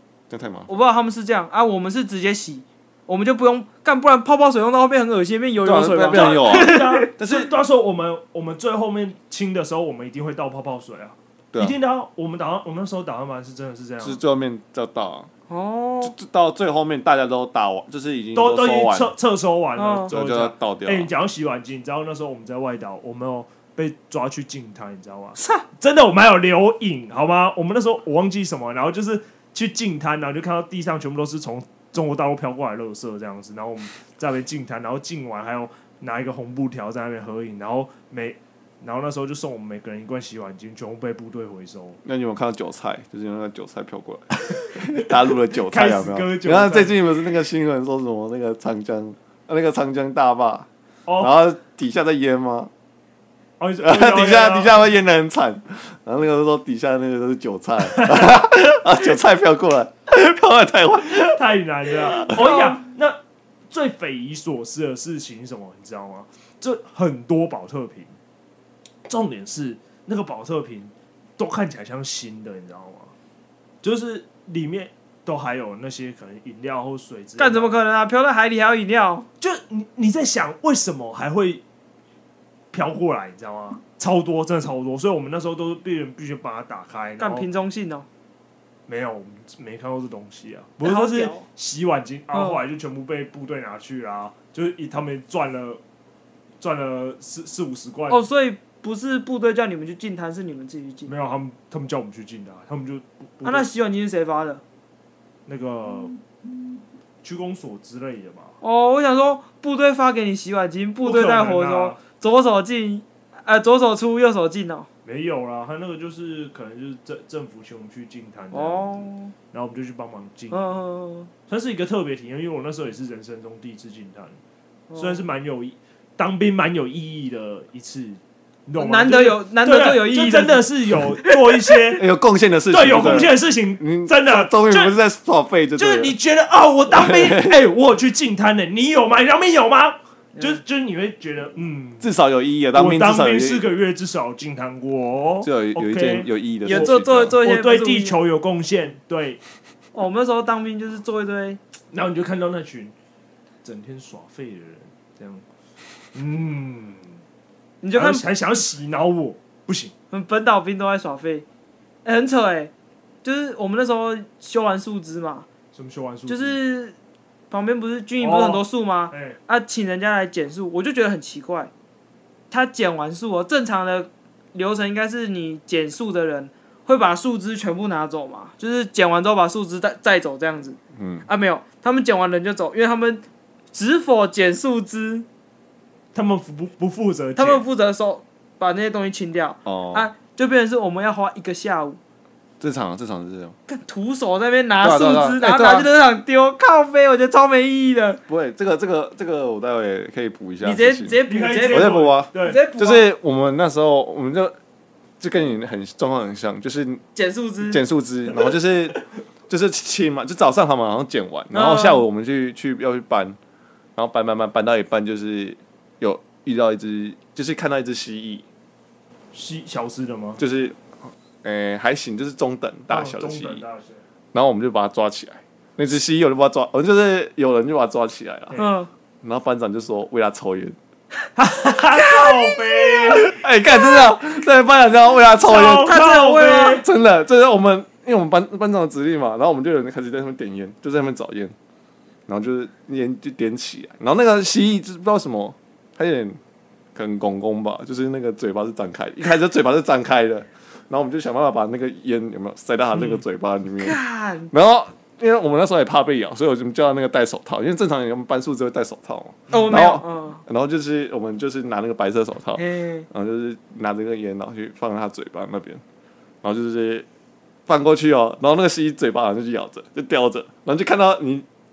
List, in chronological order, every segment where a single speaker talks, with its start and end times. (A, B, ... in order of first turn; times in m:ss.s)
0:00.3-0:00.7 A
0:00.7-0:07.1 B
0:05.6-0:07.5 A
0:06.1-0:14.2 C
0:14.0-0:15.3 A
0:15.5-0:16.1 B
0:16.0-0:19.1 A
0:18.3-0:42.0 C
0:19.8-0:20.1 B
0:20.1-0:21.1 A
0:25.4-0:25.6 B
0:42.0-0:50.7 A
0:44.5-0:47.0 C
0:51.2-0:52.7 A
0:53.6-0:54.8 C
0:53.8-1:01.4 A
0:57.9-0:58.3 C
1:01.0-1:03.2 C
1:02.1-1:02.4 A
1:02.3-1:02.8 B
1:03.7-1:08.1 C
1:09.0-1:13.1 C
1:13.8-1:17.7 C
1:17.4-1:19.3 B
1:19.4-1:21.6 C
1:22.7-1:27.5 C
1:27.2-1:28.0 B
1:28.9-1:35.8 C
1:30.8-1:31.4 B
1:32.3-1:32.6 B
1:36.6-1:38.2 C
1:38.1-1:41.1 B
1:41.1-1:43.7 C
1:43.4-1:44.6 B
1:45.5-1:46.1 C
1:47.2-1:48.5 C
1:48.6-1:54.9 B
1:51.0-1:52.0 C
1:55.0-2:00.6 C
1:58.5-1:59.3 B
2:00.5-2:01.3 B
2:01.5-2:04.4 C
2:04.9-2:05.2 B
2:05.0-2:12.0 C
2:08.8-2:10.7 B
2:11.2-2:11.5 B
2:12.0-2:16.1 A
2:12.7-2:14.9 C
2:15.8-2:22.1 C
2:16.9-2:17.6 A
2:22.0-2:23.7 A
2:22.7-2:29.4 C
2:25.4-2:27.4 A
2:26.6-2:28.2 B
2:29.9-2:31.6 B
2:31.9-2:32.9 C
2:33.6-2:35.4 C
2:36.1-2:37.2 C
2:37.8-2:38.2 B
2:37.9-2:39.9 C
2:40.1-2:41.4 B
2:42.0-2:42.7 B
2:43.2-2:45.5 B
2:45.7-2:46.6 C
2:46.3-2:46.9 B
2:47.5-2:51.7 B
2:48.2-2:49.4 C
2:52.5-3:03.2 B
3:01.0-3:01.3 A
3:03.7-3:05.2 B
3:06.1-3:07.6 C
3:07.4-3:12.0 B
3:09.6-3:10.1 A
3:12.6-3:13.5 A
3:13.7-3:18.2 B
3:14.8-3:15.9 A
3:18.3-3:24.5 A
3:20.6-3:23.0 B
3:21.3-3:22.6 C
3:25.2-3:27.0 A
3:27.1-3:27.8 B
3:27.6-3:33.4 A
3:28.3-3:29.0 C
3:31.5-3:32.0 B
3:34.0-3:38.4 A
3:39.3-3:40.4 C
3:40.4-3:43.6 A
3:42.9-3:44.0 C
3:44.3-3:48.6 A
3:48.6-3:48.9 B
3:49.2-3:50.8 A
3:51.4-3:53.4 C
3:51.9-3:53.2 B
3:53.2-3:56.0 A
3:55.4-3:56.8 C
3:55.5-3:56.8 B
3:56.8-4:01.5 A
4:02.3-4:06.4 A
4:06.9-4:14.0 A
4:12.9-4:13.2 C
4:13.8-4:14.5 B
4:14.5-4:25.8 A
4:19.5-4:20.4 B
4:22.6-4:23.1 B
4:26.4-4:27.0 A
4:27.7-4:31.4 A